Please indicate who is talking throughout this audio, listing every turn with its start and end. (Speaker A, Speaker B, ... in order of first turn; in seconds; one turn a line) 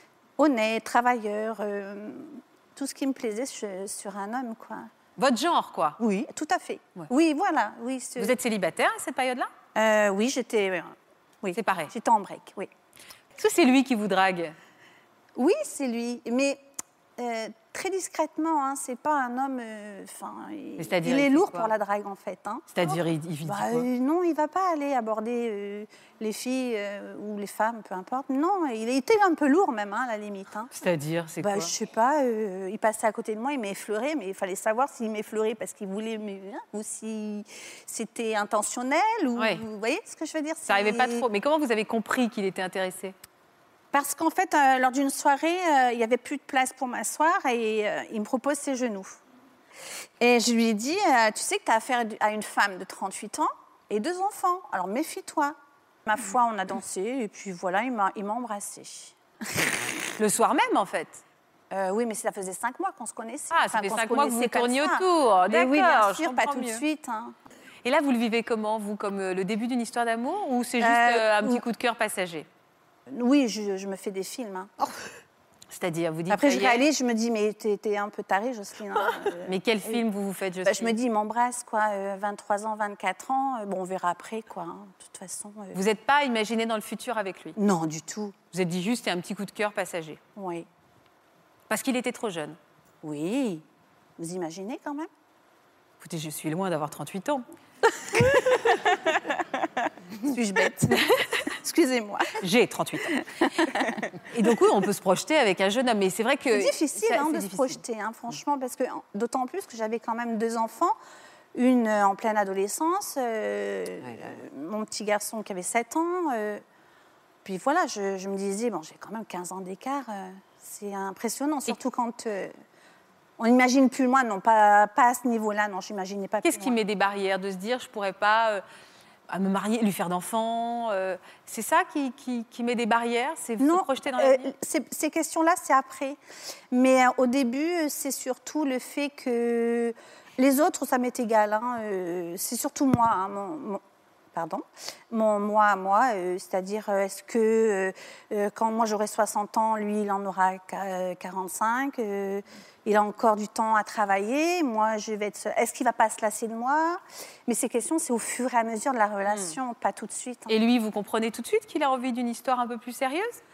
Speaker A: 0.4-4.9
Speaker B: 5.2-6.0
Speaker A: 6.0-8.3
Speaker B: 8.2-9.5
Speaker A: 9.8-12.7
Speaker B: 11.5-11.9
Speaker B: 13.4-14.6
Speaker A: 15.3-16.6
Speaker A: 17.2-30.7
Speaker B: 20.8-21.7
Speaker B: 22.7-23.9
Speaker B: 30.7-31.7
Speaker A: 31.4-41.2
Speaker B: 39.4-39.6
Speaker B: 40.7-43.1
Speaker A: 43.9-49.1
Speaker A: 50.2-59.8
Speaker B: 60.1-61.2
Speaker A: 61.7-67.3
Speaker B: 63.5-66.8
Speaker B: 67.8-72.5
Speaker A: 70.8-71.6
Speaker A: 73.1-74.7
Speaker B: 75.7-76.8
Speaker A: 76.3-80.0
Speaker B: 79.5-81.0
Speaker A: 80.6-85.8
Speaker B: 85.7-87.6
Speaker A: 87.5-88.3
Speaker B: 88.5-90.2
Speaker A: 90.3-90.7
Speaker B: 91.7-92.6
Speaker A: 93.0-93.6
Speaker A: 94.2-95.1
Speaker B: 96.0-97.4
Speaker A: 100.1-102.4
Speaker B: 102.4-103.2
Speaker A: 103.1-104.0
Speaker B: 103.8-107.8
Speaker A: 106.5-111.0
Speaker A: 111.5-116.6
Speaker A: 117.4-122.5
Speaker A: 123.4-126.8
Speaker B: 126.4-128.6
Speaker B: 129.3-134.5
Speaker A: 133.6-136.2
Speaker A: 136.7-143.8
Speaker A: 144.3-160.5
Speaker B: 159.2-159.6
Speaker B: 160.5-163.3